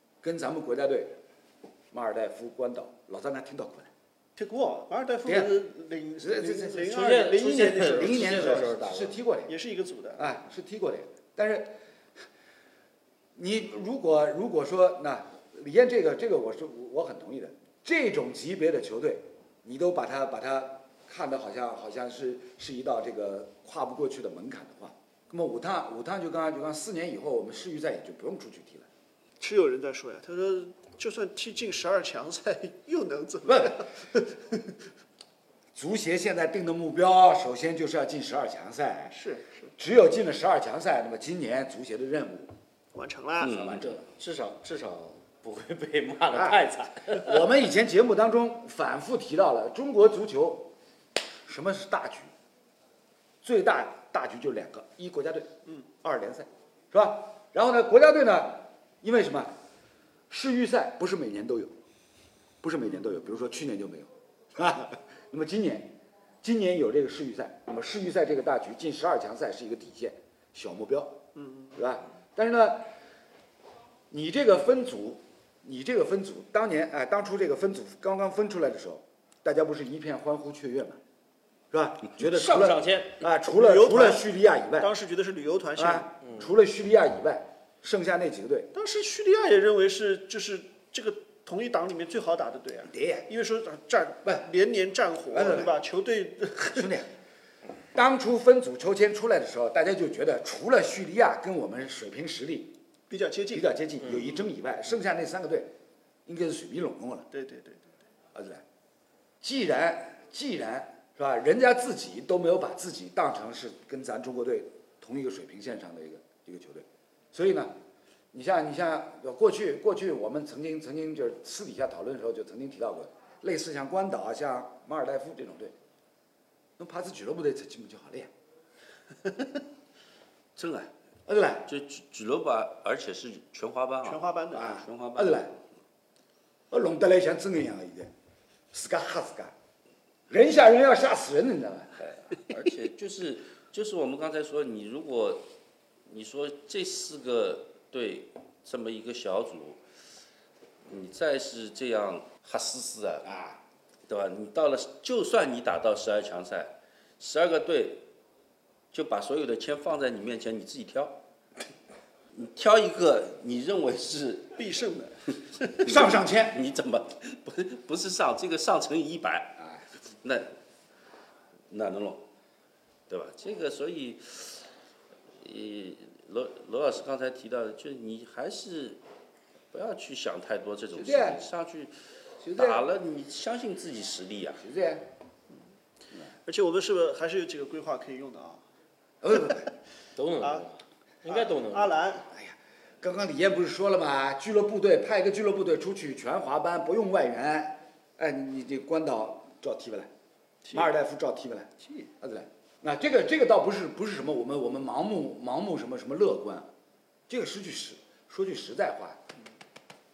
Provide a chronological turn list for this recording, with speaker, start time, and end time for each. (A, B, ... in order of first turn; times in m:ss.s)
0:00.2-0:01.2 A
0:01.9-0:03.9 A
0:04.4-0:08.7 B
0:05.2-0:05.5 A
0:06.2-0:09.5 A
0:06.9-0:09.1 C
0:09.5-0:10.4 B
0:10.2-0:11.7 A
0:13.4-0:28.9 A
0:29.4-0:34.7 B
0:33.5-0:33.8 A
0:35.7-0:39.1 A
0:39.1-0:39.7 B
0:39.8-0:42.5 A
0:42.9-0:43.8 B
0:43.4-0:43.9 D
0:43.7-0:47.4 C
0:46.3-0:50.7 A
0:51.4-0:52.3 A
0:53.4-0:59.6 A
1:00.3-1:01.8 A
1:02.6-1:11.2 A
1:11.4-1:11.8 B
1:11.8-1:12.9 A
1:14.1-1:21.0 A
1:21.7-1:24.9 A
1:22.2-1:23.2 C
1:23.5-1:24.2 B
1:24.8-1:26.1 B
1:25.8-1:28.7 A
1:28.7-1:36.9 B
1:32.9-1:33.3 A
1:35.3-1:35.8 A
1:36.7-1:37.1 A
1:37.9-1:42.7 A
1:43.1-1:43.7 B
1:43.5-1:45.7 A
1:46.3-1:47.3 A
1:47.3-1:47.9 B
1:48.3-1:48.6 A
1:49.4-1:57.7 A
1:58.3-2:05.7 A
2:06.8-2:08.3 A
2:10.6-2:10.9 D
2:11.3-2:11.7 A
2:11.7-2:15.6 D
2:14.0-2:14.8 B
2:14.5-2:15.5 A
2:16.7-2:18.1 A
2:18.7-2:19.5 A
2:20.3-2:22.1 A
2:22.0-2:25.4 D
2:26.1-2:29.8 D
2:30.9-2:33.3 D
2:33.2-2:33.6 A
2:34.1-2:38.0 D
2:38.9-2:41.2 D
2:42.3-2:44.6 D
2:44.6-2:45.8 B
2:45.7-2:49.6 D
2:45.8-2:46.6 A
2:50.2-2:50.5 D
2:51.7-2:52.2 D
2:53.1-2:54.7 D
2:55.4-2:59.0 D
2:59.7-3:02.0 D
3:00.9-3:01.4 A
3:02.4-3:02.8 A
3:02.5-3:04.6 D
3:04.6-3:05.1 A
3:06.4-3:08.6 B
3:09.2-3:09.7 A
3:10.2-3:12.0 C
3:10.4-3:10.6 B
3:11.3-3:12.3 B
3:12.3-3:20.1 A
3:20.6-3:20.9 B
3:20.7-3:26.7 A
3:27.3-3:29.2 A